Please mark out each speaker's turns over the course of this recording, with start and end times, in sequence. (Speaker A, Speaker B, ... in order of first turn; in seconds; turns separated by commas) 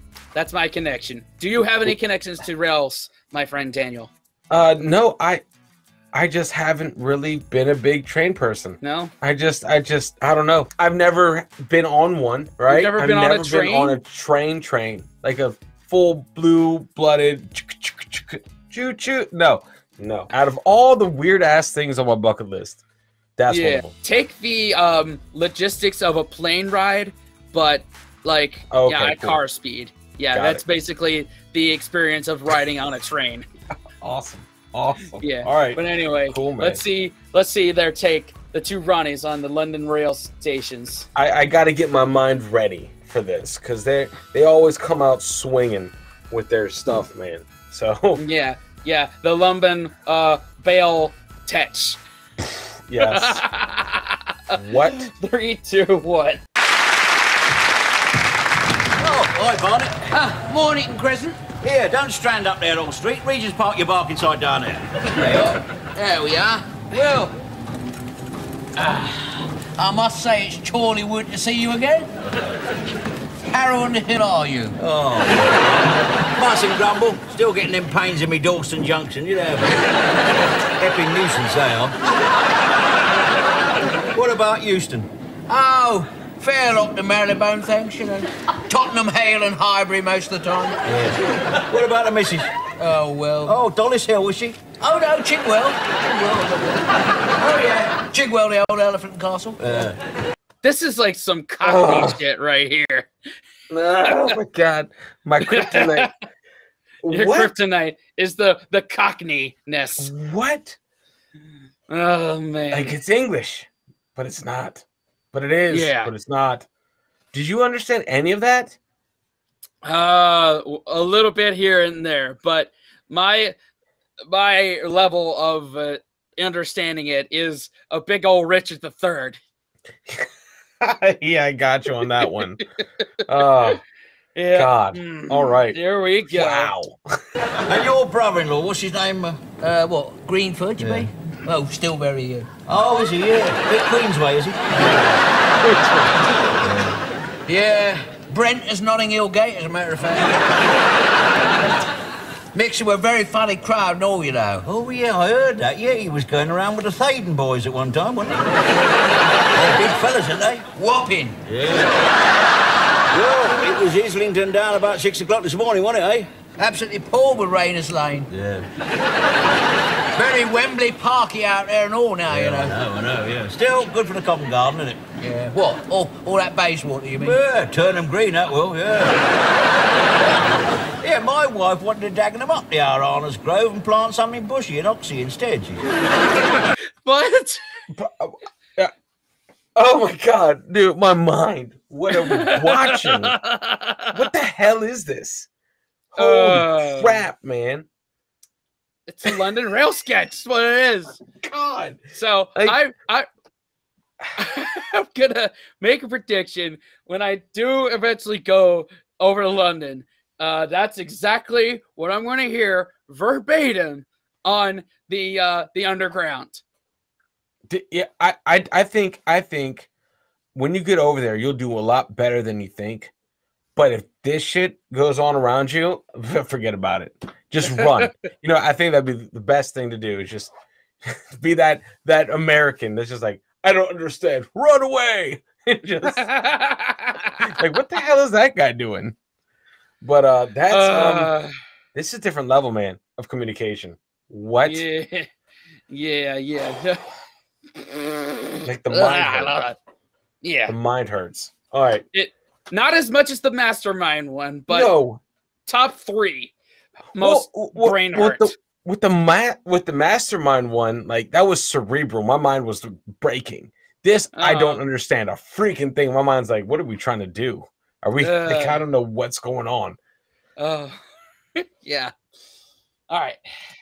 Speaker A: 0.3-4.1, Speaker B: 4.5-5.4, Speaker B: 6.1-22.8, Speaker A: 8.8-9.1, Speaker A: 12.7-14.0, Speaker B: 23.4-23.9, Speaker A: 23.5-33.5, Speaker B: 28.7-29.4, Speaker B: 30.3-30.6, Speaker B: 34.0-36.8, Speaker A: 35.2-41.1, Speaker B: 41.1-48.2, Speaker A: 48.2-52.0, Speaker B: 52.9-53.4, Speaker A: 53.0-56.4, Speaker B: 54.6-55.1, Speaker C: 59.0-60.1, Speaker D: 60.1-61.4, Speaker C: 61.6-65.5, Speaker D: 65.2-67.3, Speaker D: 68.8-69.2, Speaker D: 69.7-72.1, Speaker D: 73.5-74.8, Speaker C: 74.8-79.8, Speaker C: 80.8-82.0, Speaker C: 84.1-85.1, Speaker D: 85.5-90.8, Speaker C: 90.9-92.5, Speaker D: 92.8-93.6, Speaker C: 93.5-94.6, Speaker D: 94.8-99.6, Speaker C: 99.6-100.0, Speaker A: 100.6-103.1, Speaker B: 101.6-102.2, Speaker B: 103.7-106.1, Speaker A: 104.0-104.4, Speaker A: 105.4-106.1, Speaker B: 107.0-107.5, Speaker A: 107.1-110.1, Speaker B: 110.0-110.8, Speaker A: 111.9-113.0, Speaker B: 112.7-116.7, Speaker A: 115.7-116.1, Speaker B: 117.3-118.8, Speaker A: 119.8-123.5, Speaker A: 124.3-129.4, Speaker B: 130.8-132.6, Speaker A: 132.2-132.8, Speaker B: 133.3-133.8, Speaker A: 134.3-136.7, Speaker B: 134.5-137.2, Speaker C: 137.7-139.4, Speaker D: 139.6-142.5, Speaker C: 140.8-141.1, Speaker C: 142.7-144.6, Speaker D: 144.7-145.3, Speaker B: 145.6-146.2, Speaker C: 146.6-147.0, Speaker D: 147.5-150.5, Speaker D: 152.5-154.7, Speaker C: 154.6-158.6, Speaker C: 159.5-160.7, Speaker D: 160.8-161.4, Speaker C: 161.4-161.9, Speaker C: 163.1-166.3, Speaker D: 166.6-168.3, Speaker C: 168.3-168.7, Speaker D: 170.2-172.8, Speaker C: 172.3-175.0, Speaker D: 175.2-177.4, Speaker C: 177.2-179.2, Speaker C: 180.2-185.8, Speaker A: 187.0-187.6, Speaker B: 187.9-188.9, Speaker B: 189.8-193.4, Speaker A: 192.1-194.2, Speaker B: 194.1-195.5, Speaker B: 196.1-197.9, Speaker A: 196.2-197.2, Speaker A: 199.1-201.2, Speaker B: 201.4-202.0, Speaker A: 202.1-203.3, Speaker A: 204.4-216.6, Speaker B: 217.7-219.9, Speaker B: 220.6-223.1, Speaker B: 223.8-230.5, Speaker B: 231.1-236.3, Speaker A: 236.0-237.5, Speaker B: 237.4-239.2, Speaker B: 240.0-241.3, Speaker A: 240.7-241.5, Speaker B: 241.9-244.9, Speaker A: 244.6-245.3, Speaker A: 245.9-247.0, Speaker B: 248.6-249.6, Speaker A: 248.9-249.8, Speaker A: 250.4-250.8, Speaker B: 250.7-252.1, Speaker A: 252.1-255.0, Speaker B: 254.7-255.2, Speaker A: 255.7-256.5, Speaker A: 257.1-258.5, Speaker B: 257.1-270.0, Speaker A: 264.3-264.8, Speaker A: 268.2-268.8, Speaker A: 270.6-271.0, Speaker A: 271.6-272.1, Speaker A: 273.1-273.4